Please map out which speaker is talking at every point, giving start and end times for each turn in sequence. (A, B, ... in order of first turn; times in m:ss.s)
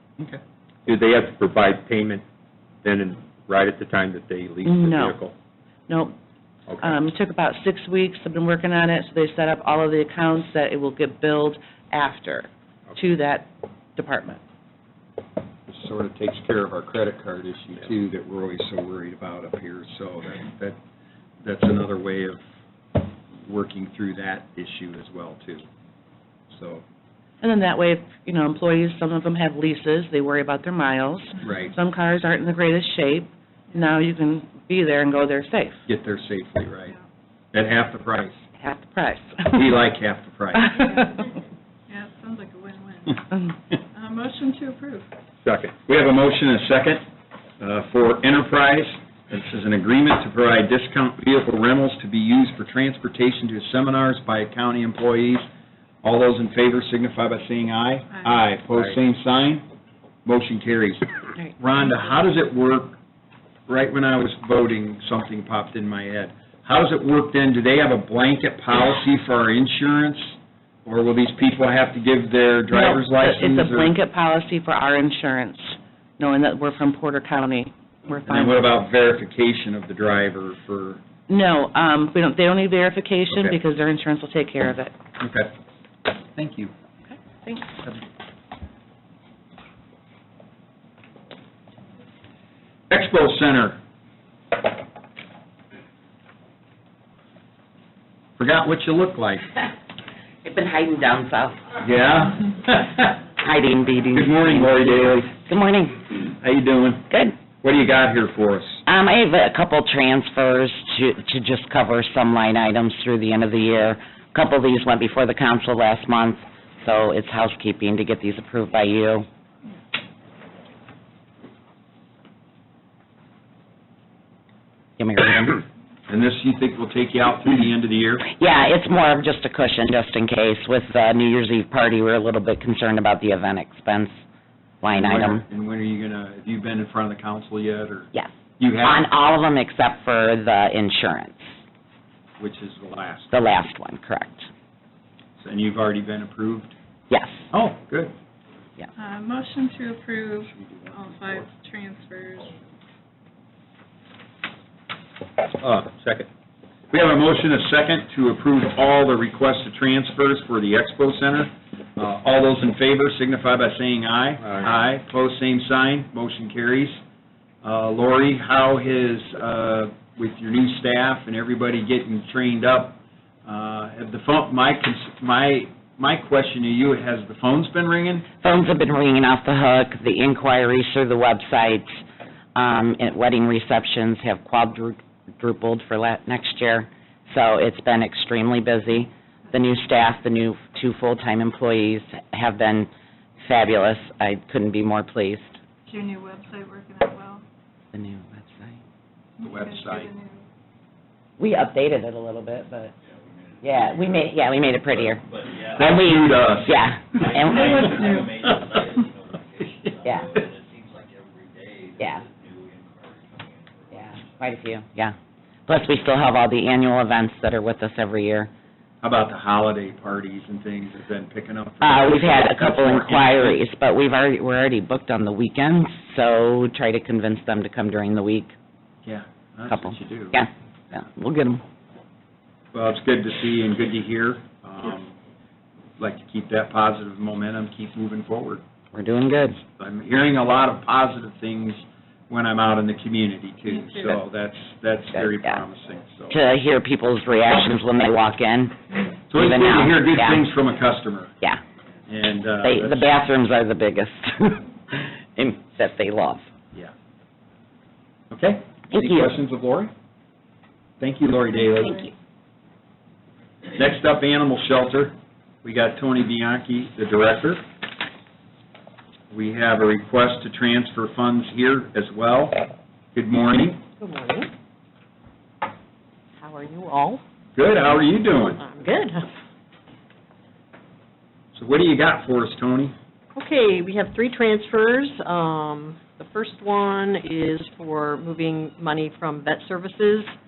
0:00.8-0:02.2 A
0:02.8-0:05.3 A
0:04.6-0:05.2 B
0:05.9-0:06.2 B
0:06.7-0:07.0 A
0:06.8-0:14.4 B
0:15.7-0:20.8 C
0:21.4-0:22.4 C
0:23.4-0:25.6 C
0:26.5-0:26.8 C
0:27.4-0:35.8 B
0:31.4-0:31.7 C
0:35.9-0:36.9 C
0:37.5-0:38.4 C
0:38.6-0:39.6 B
0:39.5-0:40.8 C
0:40.6-0:41.3 B
0:40.8-0:41.1 D
0:41.9-0:43.2 D
0:43.9-0:45.1 D
0:45.4-0:45.7 A
0:45.8-0:47.0 C
0:47.6-0:55.4 C
0:56.0-0:59.6 C
1:00.2-1:03.0 C
1:03.7-1:13.9 C
1:12.7-1:18.7 B
1:18.3-1:21.0 C
1:21.3-1:24.9 B
1:23.3-1:23.6 C
1:25.2-1:25.5 C
1:26.1-1:26.7 C
1:27.1-1:27.8 B
1:32.9-1:33.8 C
1:38.4-1:39.5 C
1:40.4-1:41.8 E
1:41.8-1:43.2 C
1:43.4-1:46.2 E
1:44.1-1:45.3 C
1:46.4-1:47.0 C
1:47.1-1:47.4 E
1:47.6-1:48.8 C
1:48.8-1:59.3 E
2:05.0-2:05.6 E
2:06.1-2:08.2 C
2:08.3-2:14.2 E
2:14.8-2:15.4 E
2:15.0-2:19.0 C
2:18.8-2:21.5 E
2:22.4-2:23.3 C
2:23.3-2:24.5 E
2:25.4-2:26.7 C
2:27.1-2:27.5 E
2:27.5-2:28.1 C
2:29.0-2:32.5 D
2:30.5-2:31.4 C
2:35.6-2:36.3 A
2:36.9-2:47.0 C
2:47.6-2:58.3 C
2:58.4-3:02.0 E
3:02.5-3:12.9 E
3:13.4-3:15.6 E
3:15.9-3:17.4 D
3:17.9-3:18.8 E
3:19.4-3:20.4 D
3:19.4-3:20.1 C
3:21.4-3:22.9 E
3:23.0-3:34.6 F
3:23.6-3:25.2 E
3:25.7-3:26.7 C
3:25.8-3:27.8 E
3:27.5-3:28.3 D
3:30.0-3:30.4 E
3:32.0-3:32.2 E
3:33.9-3:35.1 E
3:35.7-3:38.5 E
3:39.0-3:43.6 C
3:41.8-3:48.5 E
3:49.0-3:50.4 C
3:49.7-3:51.6 E
3:52.7-3:55.1 C
3:56.0-3:58.6 C
3:58.9-3:59.6 E
3:59.8-4:06.4 C
4:03.7-4:04.2 D
4:05.1-4:05.6 E
4:06.3-4:08.8 E
4:09.3-4:11.3 C
4:09.3-4:10.5 E
4:12.1-4:13.1 C
4:12.6-4:16.5 E
4:18.3-4:19.9 C
4:18.9-4:19.3 E
4:21.0-4:22.0 C
4:23.7-4:27.6 C
4:29.3-4:32.6 C
4:33.1-4:33.8 C
4:34.0-4:34.5 G
4:36.4-4:37.2 G
4:37.6-4:38.6 C
4:38.3-4:39.2 G
4:41.5-4:42.9 C
4:43.3-4:50.3 G